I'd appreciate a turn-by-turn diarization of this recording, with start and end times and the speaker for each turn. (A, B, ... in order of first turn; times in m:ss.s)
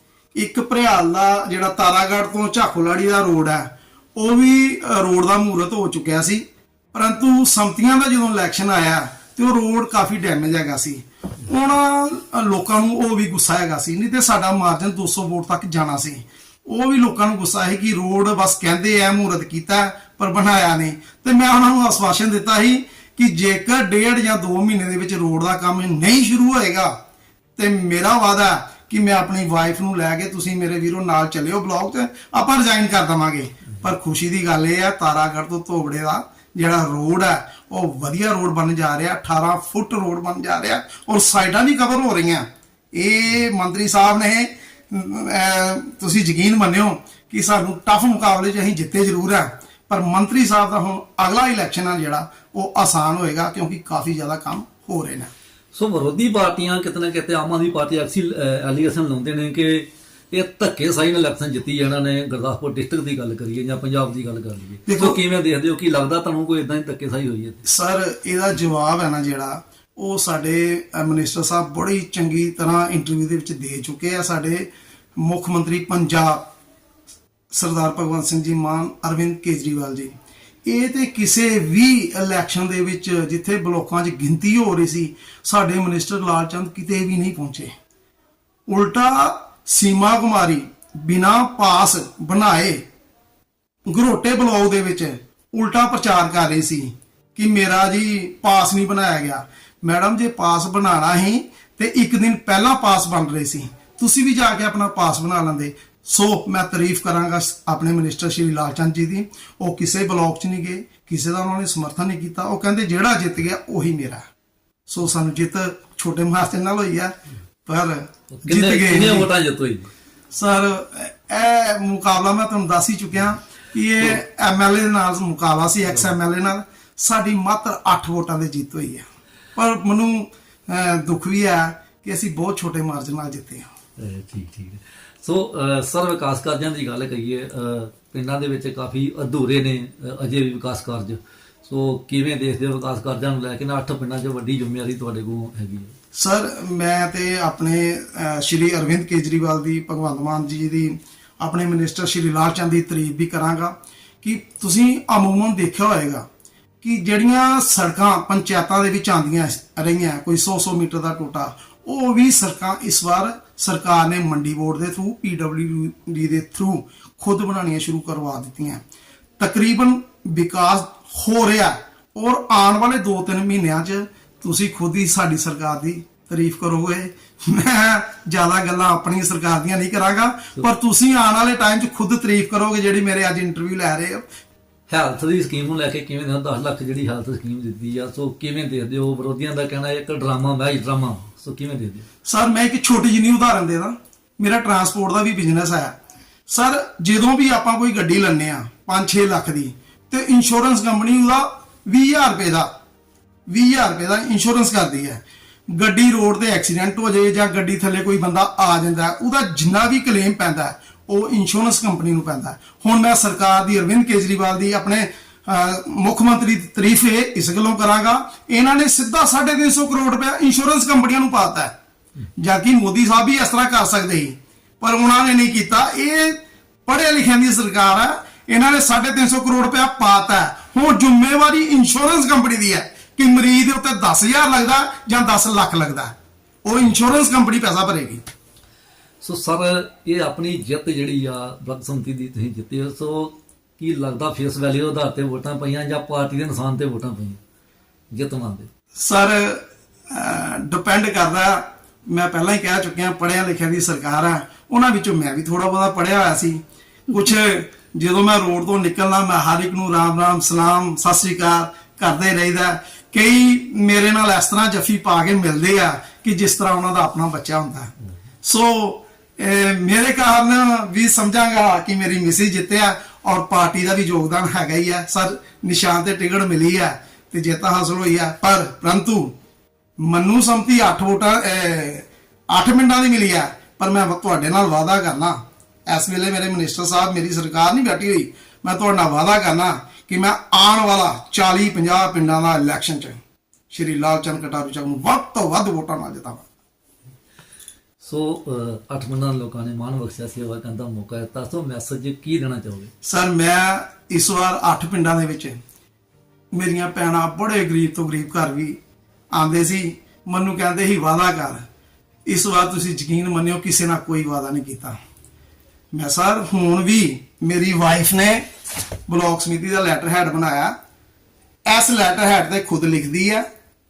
0:00.3-0:26.9 A
0:27.6-0:55.3 A
0:55.7-1:07.6 B
1:04.8-1:05.2 A
1:07.6-1:16.4 A
1:17.5-1:20.1 A
1:20.6-1:27.7 A
1:28.7-1:32.8 A
1:33.9-1:54.2 A
1:54.9-1:57.1 A
1:57.6-1:59.3 A
1:58.3-1:59.9 B
2:00.3-2:13.7 A
2:14.0-2:25.9 B
2:26.1-2:36.2 A
2:36.8-2:48.8 A
2:49.4-3:04.2 A
3:04.9-3:12.0 B
3:12.2-3:15.9 A
3:16.5-3:22.7 A
3:23.5-3:41.7 A
3:42.4-3:58.2 A
3:59.2-4:07.4 B
4:08.1-4:08.7 B
4:09.0-4:27.9 A
4:28.4-4:39.3 A
4:40.0-4:53.2 A
4:53.7-4:56.4 A
4:58.0-5:02.9 B
5:03.0-5:05.6 A
5:06.5-5:08.8 A
5:09.3-5:11.6 A
5:12.2-5:15.0 A
5:15.9-5:18.4 A
5:19.1-5:20.7 A
5:21.6-5:23.4 A